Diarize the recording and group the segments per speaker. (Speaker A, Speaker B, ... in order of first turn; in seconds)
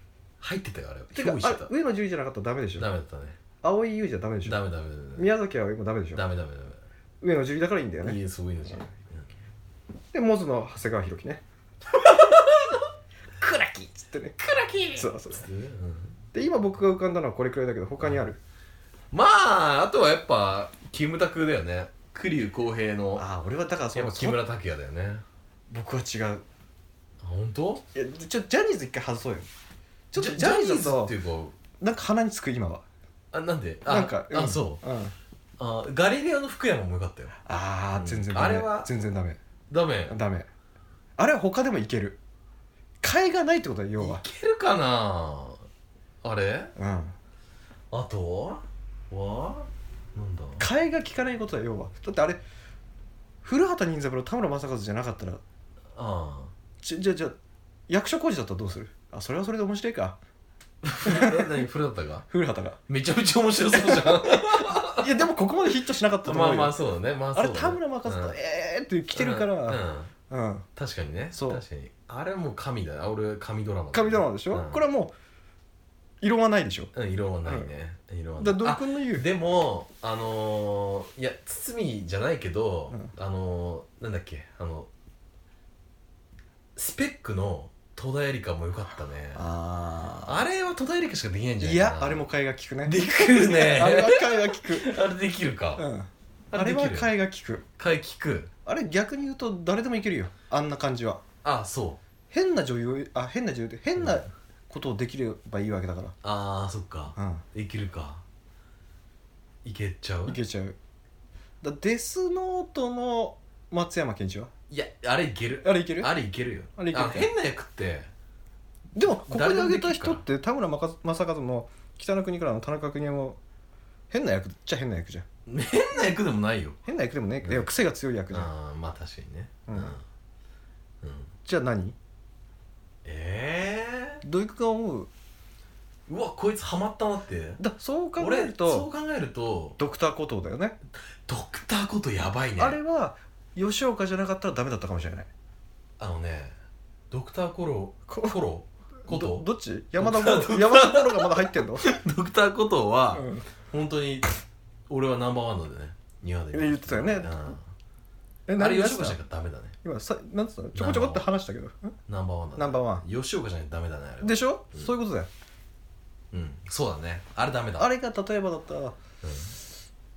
Speaker A: 0.4-1.7, 2.8-3.4, 4.4-5.3, 6.1-6.8, 8.0-9.3, 11.9-12.9, 14.4-16.2, 19.1-23.2, 23.9-25.2, 27.2-27.8, 30.1-31.6, 33.3-34.8, 35.6-37.4, 38.0-38.9, 39.7-40.1, 44.0-45.6, 46.2-46.7, 47.9-50.7, 55.9-56.5, 60.8-62.3, 62.9-65.3, 66.2-68.4, 69.1-70.1, 70.8-74.8, 76.9-84.9, 86.8-89.5, 90.2-92.3, 92.8-95.9, 96.5-97.1, 97.8-98.5, 101.4-102.0, 106.2-108.2, 109.6-110.4, 114.7-118.1, 119.2-120.2, 125.5-126.8, 128.3-130.0, 131.0-131.3, 133.1-134.2, 136.1-137.6, 138.2-139.8, 141.3-142.8, 146.0-146.6, 147.1-149.5, 150.0-154.3, 154.9-157.7, 158.6-159.8, 160.8-161.3, 162.1-164.9, 166.3-167.9, 169.2-169.5
Speaker B: 1.1-2.9, 3.6-4.6, 5.2-6.2, 7.2-8.2, 10.1-11.4, 13.4-14.4, 15.0-15.5, 16.3-18.4, 23.2-24.4, 25.7-26.4, 27.9-29.5, 30.1-31.1, 31.8-32.9, 33.9-35.1, 37.5-39.4, 40.1-40.5, 41.2-42.2, 43.0-44.2, 46.8-47.1, 50.6-52.4, 53.4-55.4, 56.8-57.4, 57.9-60.2, 61.0-61.6, 62.3-62.8, 63.7-66.8, 67.3-70.7, 71.3-71.6, 73.9-75.1, 76.2-76.9, 78.4-79.3, 89.3-90.4, 91.6-95.0, 95.8-97.6, 98.7-101.2, 102.3-106.2, 107.2-107.4, 110.3-110.8, 111.6-114.5, 115.6-116.1, 116.8-117.3, 119.0-123.4, 124.1-125.3, 126.8-128.5, 129.7-130.0, 131.4-132.0, 134.2-135.1, 137.6-138.9, 139.8-140.8, 142.6-145.3, 148.1-148.4, 149.1-151.9, 153.1-153.5, 156.5-157.6, 158.5-159.2, 159.8-162.0, 162.6-163.1, 164.2-165.3, 167.8-169.0